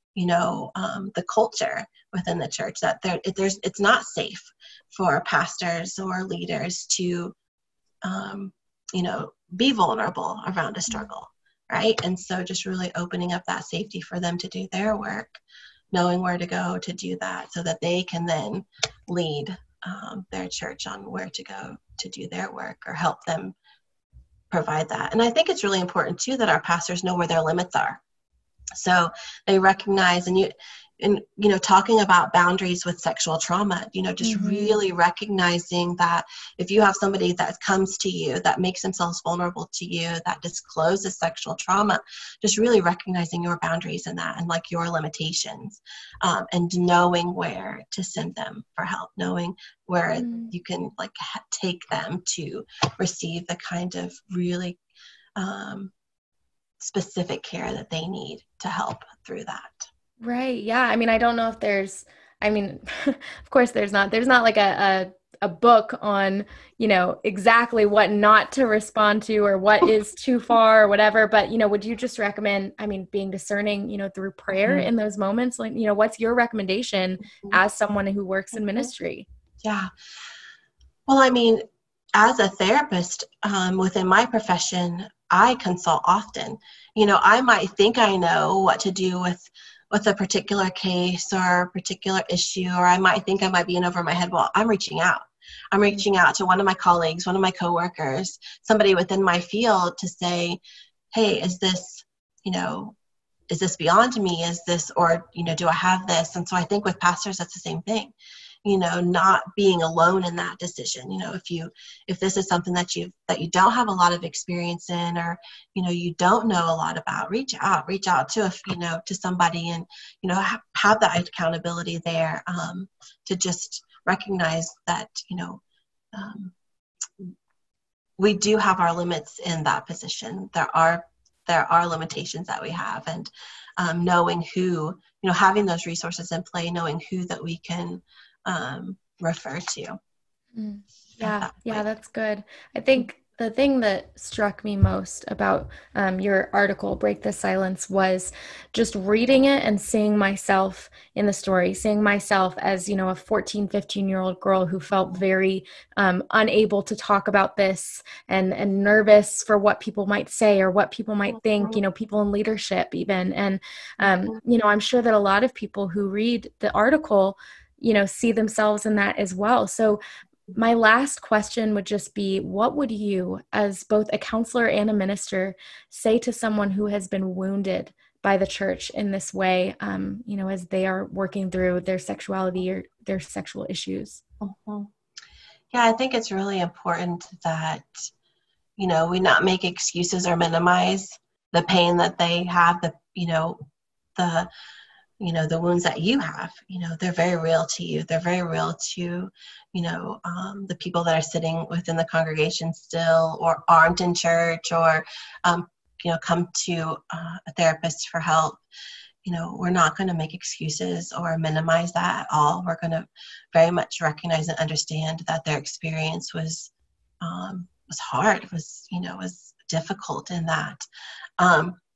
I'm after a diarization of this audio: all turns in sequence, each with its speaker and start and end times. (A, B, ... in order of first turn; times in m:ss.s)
0:00.1-0:07.3 A
0:08.0-0:15.4 A
0:15.9-0:23.6 A
0:24.5-0:28.0 A
0:28.8-0:54.8 A
0:34.2-0:34.8 B
0:50.2-0:50.5 B
0:55.4-0:55.9 A
0:56.8-0:59.9 A
1:00.2-1:19.2 B
1:14.6-1:14.9 A
1:19.6-1:19.9 A
1:21.1-1:21.6 A
1:22.2-1:40.6 A
1:41.1-1:42.9 A
1:43.5-1:48.1 A
1:48.6-2:05.6 A
2:06.1-2:06.5 A
2:08.2-2:20.0 A
2:20.5-2:50.0 B
2:21.2-2:21.8 A
2:44.0-2:44.3 A
2:50.5-3:04.2 B
3:04.4-3:04.9 A
3:05.7-3:08.1 A
3:08.8-3:13.6 A
3:14.2-3:14.5 A
3:15.2-3:28.6 A
3:29.2-3:36.7 A
3:37.2-3:40.8 A
3:41.4-3:41.8 A